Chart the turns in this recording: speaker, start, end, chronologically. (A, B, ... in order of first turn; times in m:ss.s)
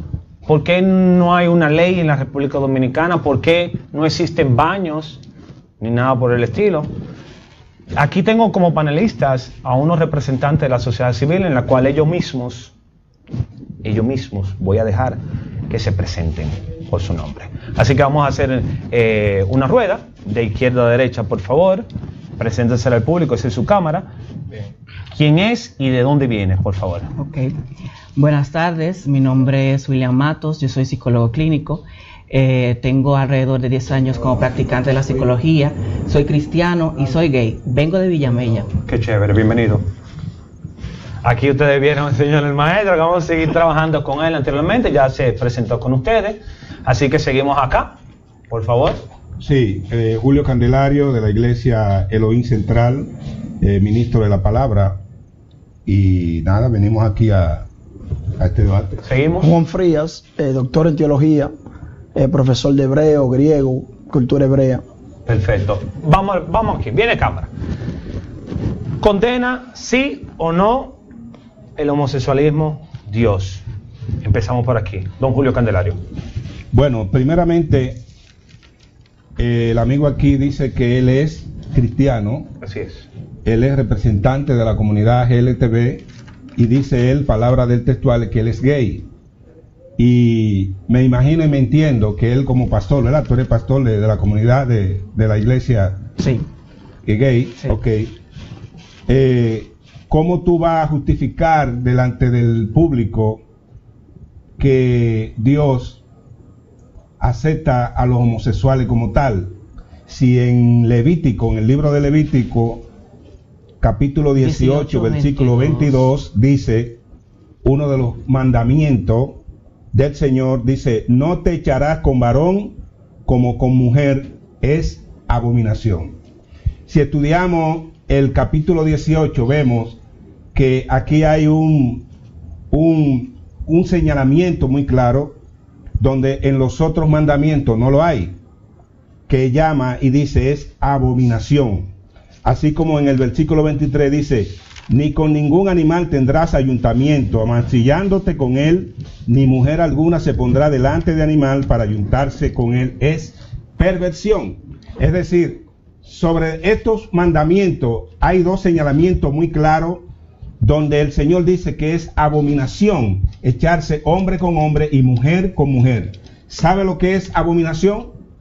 0:00.4-0:05.2 A
0:05.8-0:06.9 A
0:07.9-0:12.7 A
0:13.8-0:21.8 A
0:22.4-0:24.1 A
0:25.1-0:27.1 A
0:27.2-0:27.5 B
0:28.1-0:38.7 B
0:38.8-0:39.8 A
0:41.2-0:47.9 A
0:48.5-0:49.0 A
0:49.4-0:55.0 C
0:55.8-0:57.7 C
0:58.4-0:59.0 C
0:59.0-0:59.5 A
0:59.4-1:01.5 D
1:02.1-1:04.8 D
1:05.2-1:07.5 A
1:09.0-1:11.0 A
1:11.8-1:13.6 A
1:14.2-1:16.0 A
1:16.7-1:18.0 C
1:19.4-1:22.5 C
1:22.6-1:23.0 A
1:23.4-1:29.1 C
1:30.0-1:36.0 C
1:36.2-1:36.4 B
1:37.0-1:38.1 C
1:39.1-1:43.4 C
1:44.6-1:46.0 C
1:47.2-1:49.6 C
1:50.1-1:52.9 C
1:53.8-1:57.0 C
1:54.4-1:56.1 B
1:57.6-1:59.4 C
1:59.9-2:06.2 C
2:06.8-2:10.0 C
2:10.5-2:12.1 C
2:12.7-2:15.4 C
2:16.0-2:18.4 C
2:19.3-2:21.9 C
2:22.4-2:40.0 C
2:40.6-2:48.1 C